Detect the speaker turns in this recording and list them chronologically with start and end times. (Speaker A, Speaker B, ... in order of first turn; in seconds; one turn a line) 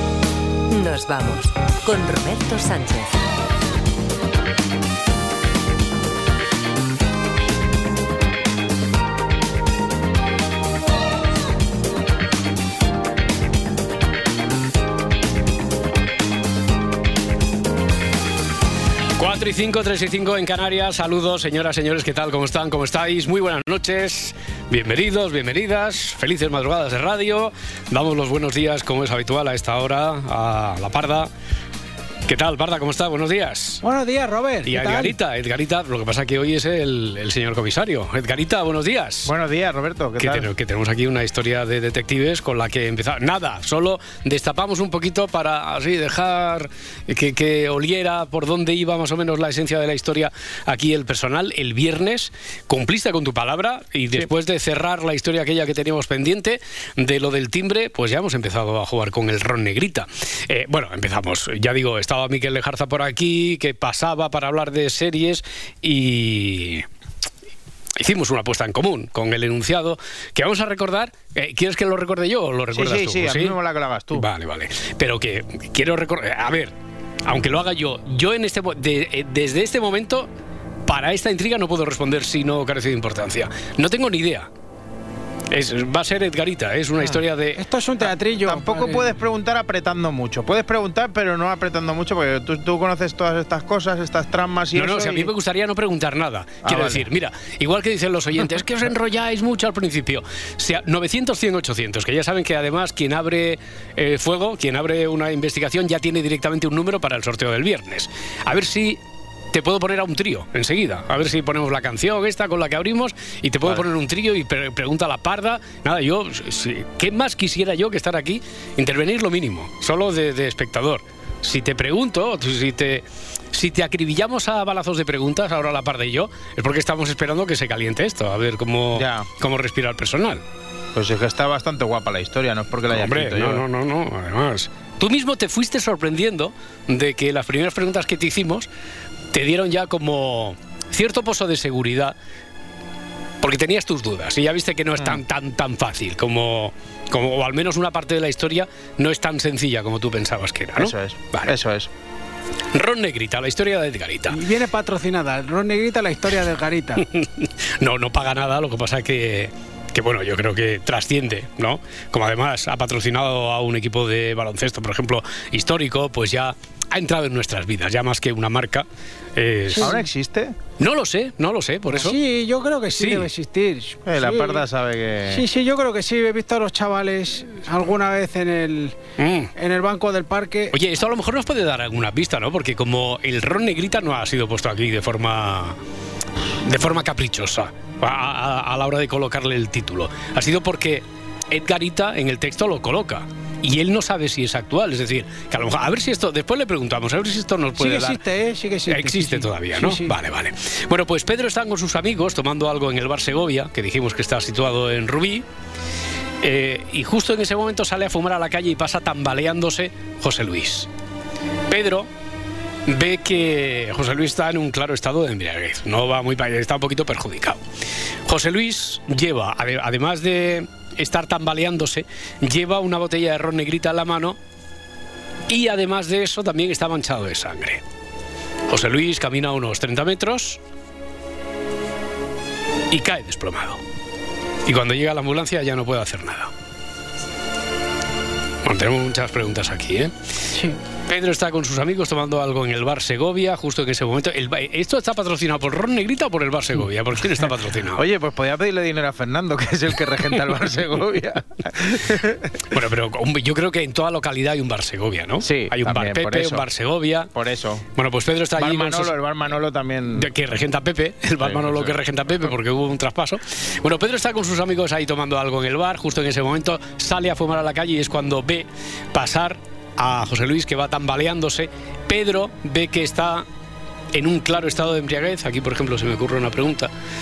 Speaker A: 0.7-3.2
Speaker B: 19.2-31.3
Speaker B: 32.3-33.8
Speaker C: 33.8-35.2
Speaker B: 34.7-39.3
Speaker D: 39.2-40.5
Speaker B: 40.2-66.9
Speaker B: 68.0-73.6
Speaker D: 72.7-74.3
Speaker B: 74.1-76.7
Speaker B: 77.3-80.3
Speaker B: 80.9-84.5
Speaker B: 85.5-87.6
Speaker C: 87.6-89.2
Speaker D: 88.4-95.3
Speaker B: 94.8-109.0
Speaker D: 96.6-97.1
Speaker B: 109.5-130.4
Speaker D: 128.9-129.3
Speaker D: 130.9-133.7
Speaker B: 132.9-138.7
Speaker B: 139.3-142.2
Speaker B: 143.4-151.5
Speaker D: 150.8-151.9
Speaker B: 152.7-154.4
Speaker C: 154.3-157.0
Speaker B: 157.0-170.0
Speaker C: 169.7-170.0
Speaker D: 169.8-170.6
Speaker B: 170.8-172.2
Speaker C: 171.9-174.7
Speaker B: 173.0-173.3
Speaker D: 174.1-175.4
Speaker C: 175.3-179.0
Speaker B: 179.2-179.5
Speaker C: 179.6-180.8
Speaker B: 180.7-185.8
Speaker B: 186.7-198.2
Speaker C: 197.8-200.1
Speaker B: 198.9-205.4
Speaker B: 206.4-210.9
Speaker B: 211.7-212.1
Speaker B: 212.9-217.6
Speaker B: 218.3-224.4
Speaker B: 225.5-227.8
Speaker B: 228.7-230.6
Speaker B: 232.9-233.8
Speaker B: 234.7-236.5
Speaker B: 238.6-240.1
Speaker B: 241.1-248.0
Speaker D: 247.9-252.6
Speaker B: 252.7-257.3
Speaker D: 255.4-256.6
Speaker D: 257.3-257.9
Speaker B: 258.0-259.1
Speaker D: 258.6-260.3
Speaker B: 260.2-273.5
Speaker D: 261.4-262.0
Speaker B: 274.1-276.9